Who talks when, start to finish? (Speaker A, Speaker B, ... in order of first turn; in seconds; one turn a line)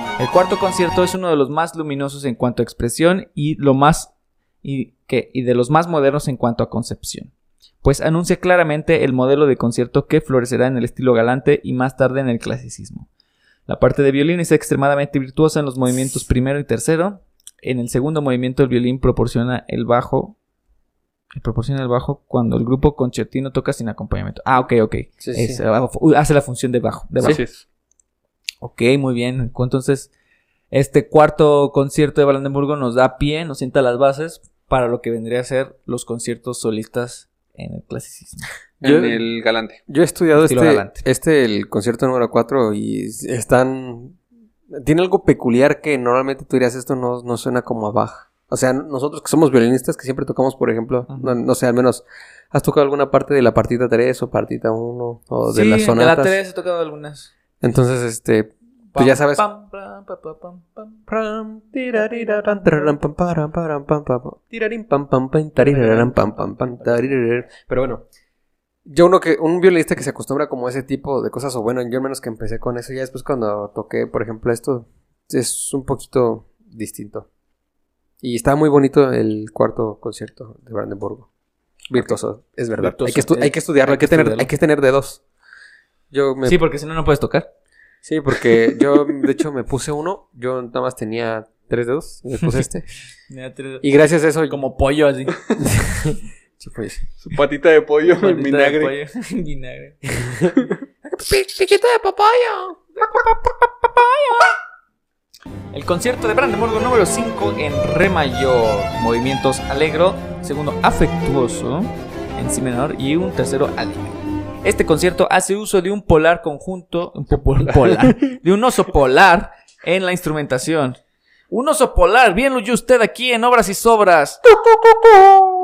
Speaker A: 0.2-4.1
Speaker A: 4.6-7.3
Speaker A: 7.8-13.1
Speaker A: 13.7-20.4
Speaker A: 21.4-27.4
Speaker B: 25.2-25.6
Speaker C: 27.2-27.6
Speaker A: 28.6-30.1
Speaker A: 30.7-38.5
Speaker C: 38.8-39.8
Speaker B: 38.8-39.3
Speaker B: 39.9-44.2
Speaker A: 40.4-41.0
Speaker B: 44.7-56.4
Speaker A: 51.1-51.4
Speaker A: 55.5-57.3
Speaker B: 57.6-59.5
Speaker A: 58.9-61.0
Speaker B: 61.1-68.0
Speaker A: 62.0-62.9
Speaker A: 65.6-67.1
Speaker B: 68.8-77.3
Speaker B: 78.2-81.3
Speaker B: 81.9-85.2
Speaker A: 82.8-84.5
Speaker B: 86.1-86.6
Speaker A: 86.5-87.5
Speaker B: 88.0-92.9
Speaker A: 93.3-93.8
Speaker B: 93.8-94.6
Speaker A: 94.5-96.0
Speaker B: 96.1-97.0
Speaker C: 97.2-99.0
Speaker A: 98.2-100.5
Speaker B: 100.2-102.8
Speaker A: 103.0-104.6
Speaker A: 105.7-114.1
Speaker A: 114.6-121.0
Speaker A: 121.5-124.5